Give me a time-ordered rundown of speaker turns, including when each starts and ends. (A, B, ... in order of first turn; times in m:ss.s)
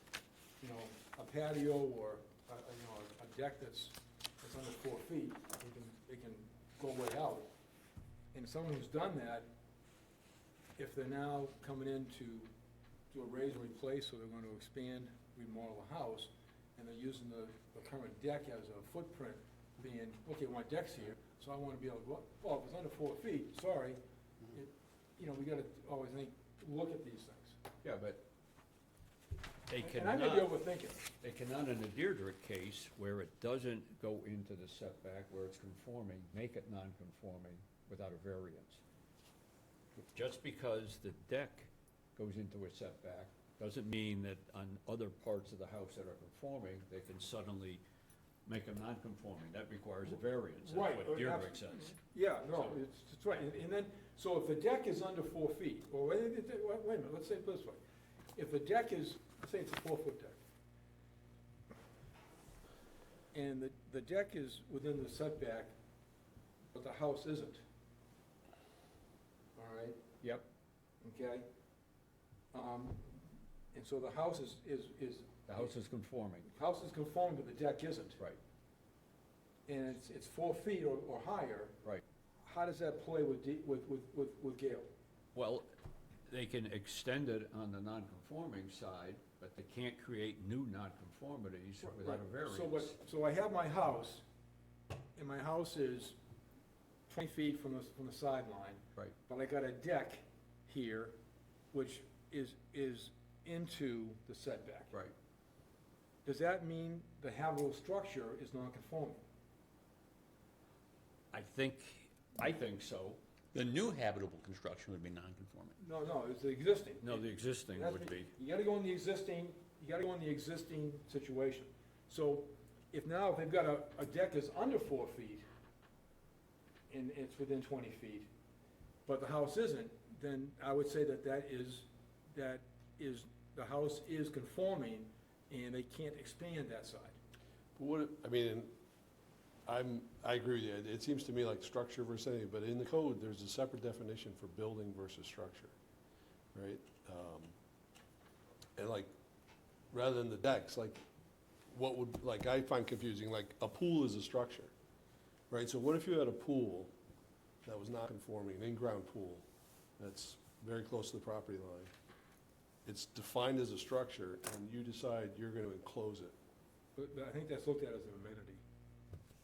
0:00.6-0:07.5 A
0:08.3-0:09.5 A
0:10.8-0:12.5 A
0:13.1-0:24.0 A
0:24.5-0:27.6 A
0:27.8-0:28.2 B
0:29.7-0:30.6 B
0:29.8-0:31.0 A
0:31.2-0:38.8 B
0:40.0-0:47.8 B
0:48.4-0:52.0 B
0:50.6-0:57.8 A
0:58.3-1:00.4 A
1:03.3-1:05.7 A
1:06.7-1:07.6 A
1:09.6-1:10.0 A
1:11.0-1:11.4 A
1:12.5-1:15.7 A
1:15.5-1:16.5 B
1:16.5-1:18.2 A
1:19.7-1:21.8 A
1:22.4-1:24.9 A
1:25.3-1:25.7 B
1:26.3-1:33.0 B
1:31.8-1:34.2 A
1:35.2-1:36.2 A
1:37.1-1:41.2 A
1:41.7-1:45.0 A
1:46.2-1:49.2 A
1:51.3-1:53.2 B
1:53.5-1:55.8 C
1:55.8-2:05.4 A
1:57.0-1:58.3 B
2:06.9-2:08.3 A
2:09.0-2:17.2 A
2:17.8-2:18.7 D
2:19.6-2:25.7 D
2:26.5-2:27.5 D
2:28.8-2:29.1 D
2:29.9-2:31.0 D
2:31.7-2:34.7 D
2:35.5-2:36.9 D
2:37.6-2:39.4 D
2:40.0-2:41.9 D
2:42.8-2:46.3 D
2:47.0-2:48.6 A